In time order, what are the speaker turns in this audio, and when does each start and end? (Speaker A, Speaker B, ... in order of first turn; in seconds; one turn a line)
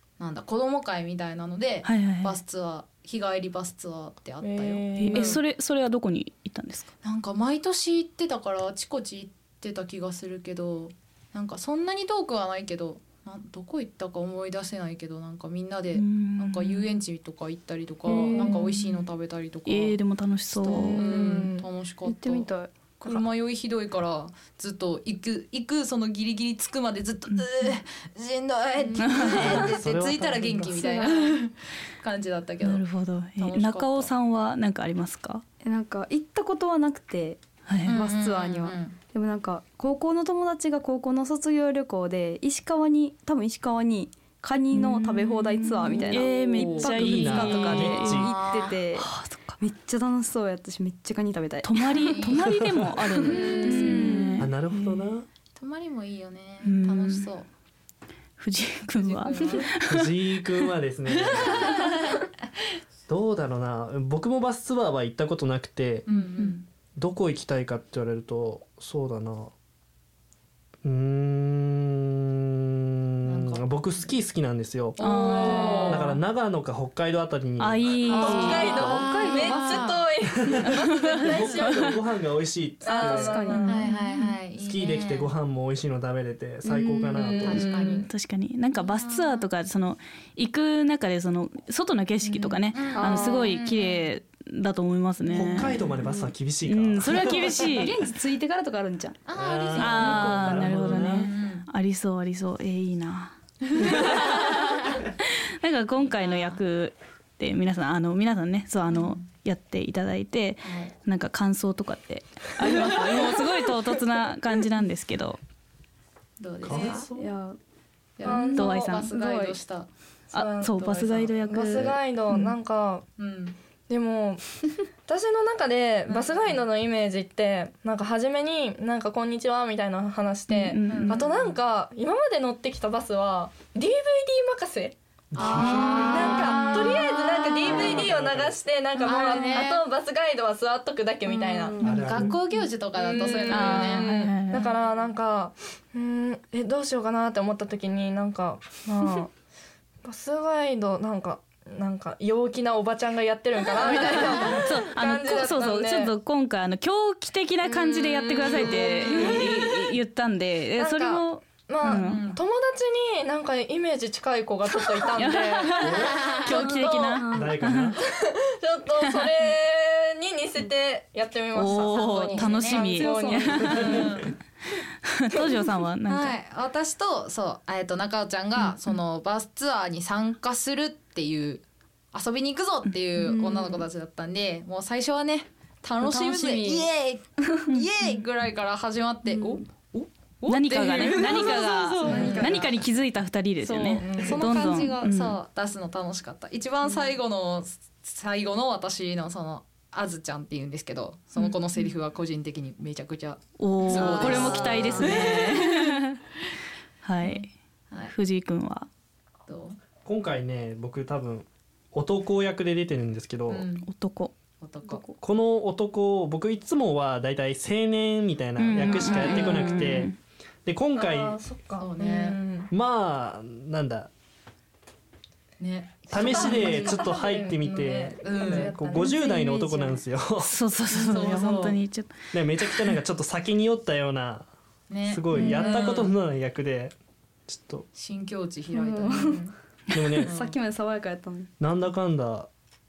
Speaker A: 0.2-5.4
Speaker B: 1.8-2.4
Speaker C: 4.4-5.4
Speaker B: 5.0-6.9
Speaker A: 7.0-20.0
Speaker B: 15.9-17.0
Speaker D: 18.1-18.7
Speaker C: 18.3-18.9
Speaker B: 19.7-21.0
Speaker C: 20.6-21.7
Speaker A: 20.9-22.5
Speaker D: 22.1-22.9
Speaker A: 23.0-32.9
Speaker B: 29.0-29.8
Speaker E: 29.2-30.8
Speaker D: 30.7-31.4
Speaker B: 32.6-35.4
Speaker A: 33.4-34.1
Speaker D: 35.6-52.1
Speaker B: 37.7-38.0
Speaker A: 37.9-39.0
Speaker B: 44.7-48.2
Speaker A: 46.0-48.8
Speaker E: 47.0-48.3
Speaker B: 49.0-49.6
Speaker B: 51.6-55.1
Speaker A: 52.0-52.6
Speaker E: 52.4-53.1
Speaker A: 53.2-54.2
Speaker D: 53.2-54.5
Speaker C: 53.3-54.2
Speaker E: 54.4-55.3
Speaker A: 55.5-57.5
Speaker B: 56.6-57.3
Speaker B: 58.4-60.1
Speaker A: 58.9-59.7
Speaker E: 59.9-61.7
Speaker A: 61.3-62.0
Speaker E: 63.1-66.1
Speaker A: 66.1-66.7
Speaker E: 67.0-69.5
Speaker E: 70.8-75.3
Speaker A: 73.2-74.1
Speaker A: 75.0-76.2
Speaker C: 75.0-76.1
Speaker B: 75.0-76.0
Speaker E: 75.8-79.1
Speaker B: 77.6-78.7
Speaker A: 78.1-80.0
Speaker C: 78.2-82.0
Speaker D: 78.2-80.0
Speaker E: 80.5-83.5
Speaker B: 80.6-82.0
Speaker C: 82.8-83.9
Speaker D: 82.9-83.8
Speaker B: 83.5-83.9
Speaker A: 83.7-85.3
Speaker E: 84.6-87.7
Speaker D: 86.6-87.6
Speaker A: 87.2-88.1
Speaker C: 87.2-88.1
Speaker B: 87.7-95.8
Speaker A: 88.8-89.5
Speaker A: 92.2-94.1
Speaker D: 92.9-93.5
Speaker E: 95.3-97.5
Speaker D: 95.4-96.3
Speaker B: 96.7-97.9
Speaker D: 97.1-99.2
Speaker A: 99.3-101.7
Speaker E: 99.4-101.3
Speaker D: 99.8-100.8
Speaker B: 99.8-105.1
Speaker B: 105.6-115.4
Speaker A: 106.0-106.6
Speaker A: 108.9-109.2
Speaker A: 110.6-111.0
Speaker A: 116.4-117.1
Speaker E: 116.6-117.3
Speaker D: 116.7-117.6
Speaker A: 118.2-119.9
Speaker C: 118.2-119.0
Speaker D: 118.3-119.6
Speaker B: 118.5-119.1
Speaker B: 120.3-122.5
Speaker C: 120.3-123.0
Speaker A: 120.8-121.3
Speaker A: 123.2-123.6
Speaker C: 123.9-141.8
Speaker A: 126.1-126.6
Speaker B: 130.5-131.5
Speaker A: 130.9-131.3
Speaker E: 135.3-136.7
Speaker A: 135.3-138.1
Speaker E: 137.4-138.6
Speaker A: 139.0-139.8
Speaker D: 141.3-142.1
Speaker A: 141.8-144.3
Speaker E: 141.8-142.4
Speaker C: 142.9-149.3
Speaker B: 143.5-144.7
Speaker C: 150.0-156.1
Speaker B: 153.9-162.2
Speaker C: 157.7-159.9
Speaker E: 158.4-159.5
Speaker D: 159.0-159.3
Speaker C: 160.8-167.3
Speaker A: 161.8-162.4
Speaker B: 165.2-167.9
Speaker E: 165.8-166.3
Speaker A: 166.0-166.4
Speaker D: 166.5-167.5
Speaker E: 167.3-168.0
Speaker C: 168.0-174.2
Speaker B: 171.6-174.0
Speaker A: 171.7-172.9
Speaker D: 172.9-174.2
Speaker A: 173.6-174.3
Speaker B: 175.0-176.4
Speaker A: 176.1-192.7
Speaker D: 183.2-183.9
Speaker D: 186.0-186.9
Speaker D: 189.3-189.6
Speaker B: 190.5-195.4
Speaker D: 191.4-192.6
Speaker C: 192.0-192.7
Speaker A: 193.6-205.8
Speaker C: 194.0-194.6
Speaker B: 203.6-206.2
Speaker C: 204.2-204.6
Speaker B: 207.0-207.5
Speaker B: 208.1-208.9
Speaker A: 209.5-209.8
Speaker E: 210.1-213.7
Speaker A: 213.5-213.9
Speaker B: 213.9-214.3
Speaker A: 214.6-215.0
Speaker E: 215.2-220.1
Speaker B: 218.6-220.2
Speaker A: 218.8-220.0
Speaker E: 220.7-221.4
Speaker C: 220.9-222.7
Speaker A: 221.8-222.4
Speaker E: 222.7-224.1
Speaker A: 225.6-227.2
Speaker E: 226.1-230.6
Speaker C: 226.1-229.1
Speaker A: 228.2-228.8
Speaker D: 228.9-230.0
Speaker B: 230.4-232.2
Speaker A: 230.9-231.8
Speaker E: 232.3-234.5
Speaker A: 234.9-236.2
Speaker E: 235.0-236.9
Speaker C: 235.3-235.8
Speaker E: 237.5-237.9
Speaker A: 237.9-239.4
Speaker D: 238.7-239.5
Speaker C: 239.3-239.5
Speaker E: 239.9-240.3
Speaker D: 240.2-241.5
Speaker A: 240.2-240.6
Speaker E: 241.6-242.5